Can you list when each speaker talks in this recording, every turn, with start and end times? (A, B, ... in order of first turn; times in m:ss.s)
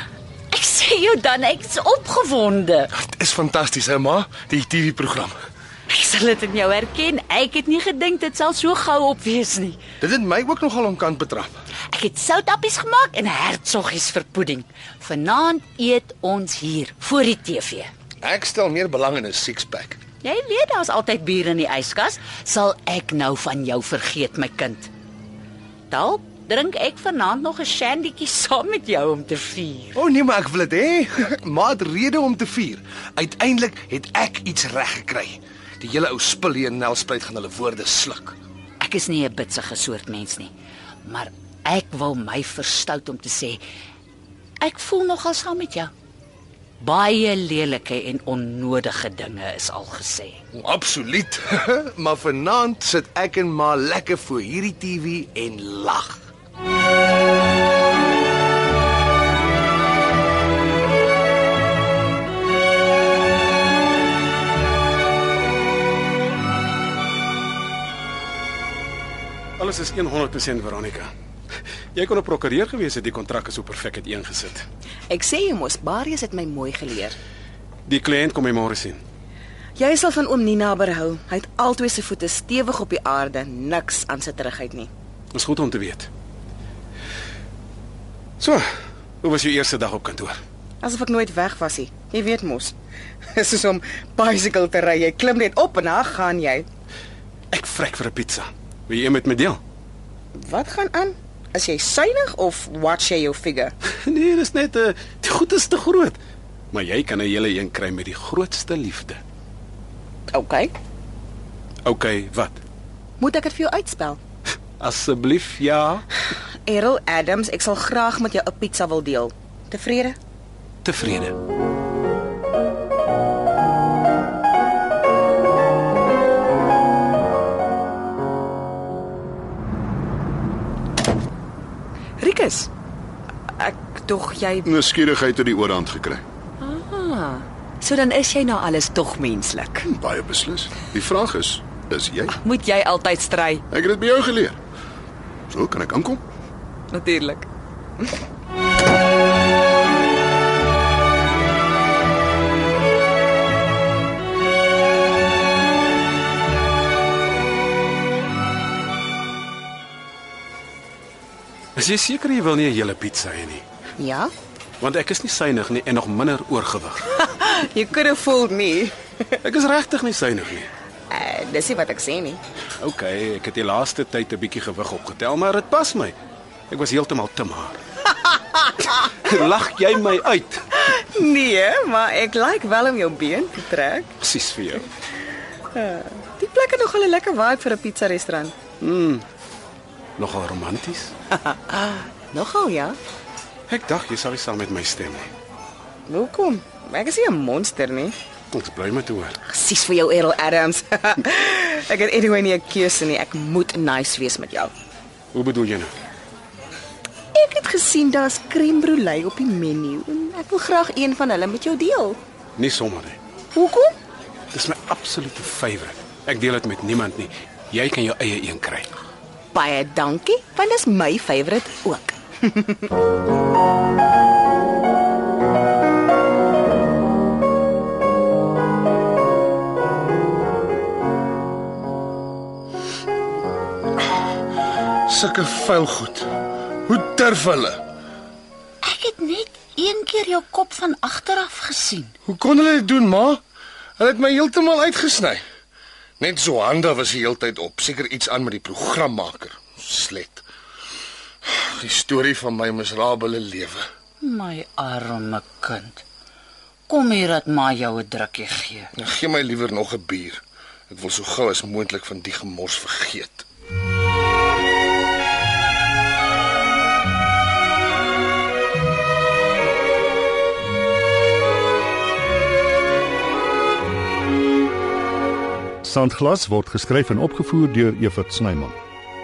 0:00.5-0:02.9 A
0:03.0-0:05.4 B
0:05.9-0:09.8 A
0:10.0-0:11.6 B
0:11.9-0:17.9 A
0:18.2-0:20.0 B
0:20.2-0:24.9 A
0:25.9-0:30.0 A
0:30.0-0:38.4 B
0:38.8-0:40.5 A
0:41.0-0:43.6 A
0:44.6-0:45.9 A
0:46.8-0:50.4 A
0:50.5-0:56.3 B
1:09.6-1:11.1 C
1:11.9-1:14.6 C
1:15.1-1:17.2 D
1:17.8-1:19.0 C
1:19.8-1:24.9 D
1:25.3-1:26.1 C
1:28.4-1:28.7 C
1:29.2-1:30.4 C
1:30.8-1:32.7 D
1:33.3-1:36.6 D
1:37.5-1:39.6 C
1:40.3-1:43.7 D
1:44.0-1:46.2 C
1:46.7-1:49.2 C
1:50.3-1:50.7 D
1:51.8-1:52.6 C
1:53.2-1:54.2 D
1:54.8-1:56.0 C
1:56.6-2:00.2 D
2:00.8-2:01.4 C
2:12.2-2:12.7 E
2:13.9-2:14.7 E
2:14.6-2:16.2 F
2:16.6-2:19.8 E
2:19.8-2:22.4 F
2:22.4-2:23.6 E
2:23.7-2:24.6 F
2:25.5-2:26.2 F
2:26.9-2:27.4 E
2:41.8-2:43.6 C
2:44.0-2:44.3 D
2:44.8-2:47.0 C
2:47.1-2:49.3 D
2:49.4-2:50.7 C
2:51.1-2:52.4 D
2:52.8-2:56.2 C
2:56.7-2:57.8 C
2:58.8-3:00.7 C
3:00.8-3:04.1 D
3:04.2-3:04.8 C
3:05.7-3:08.5 D
3:08.8-3:09.2 C
3:10.2-3:11.1 C
3:11.3-3:13.0 D
3:13.7-3:15.3 C
3:16.1-3:18.1 D
3:18.5-3:19.4 C
3:19.5-3:24.7 D
3:25.3-3:25.9 C
3:27.3-3:32.2 D
3:32.6-3:33.2 C
3:33.5-3:33.9 D
3:34.5-3:38.9 C
3:39.5-3:42.9 D
3:55.1-3:56.3 B
3:56.9-3:57.8 B
3:58.8-4:02.1 A
4:02.2-4:03.4 B
4:04.0-4:05.4 B
4:06.2-4:10.4 B
4:11.4-4:13.8 B
4:14.2-4:16.0 A
4:16.9-4:18.9 A
4:19.0-4:23.4 B
4:35.8-4:38.8 G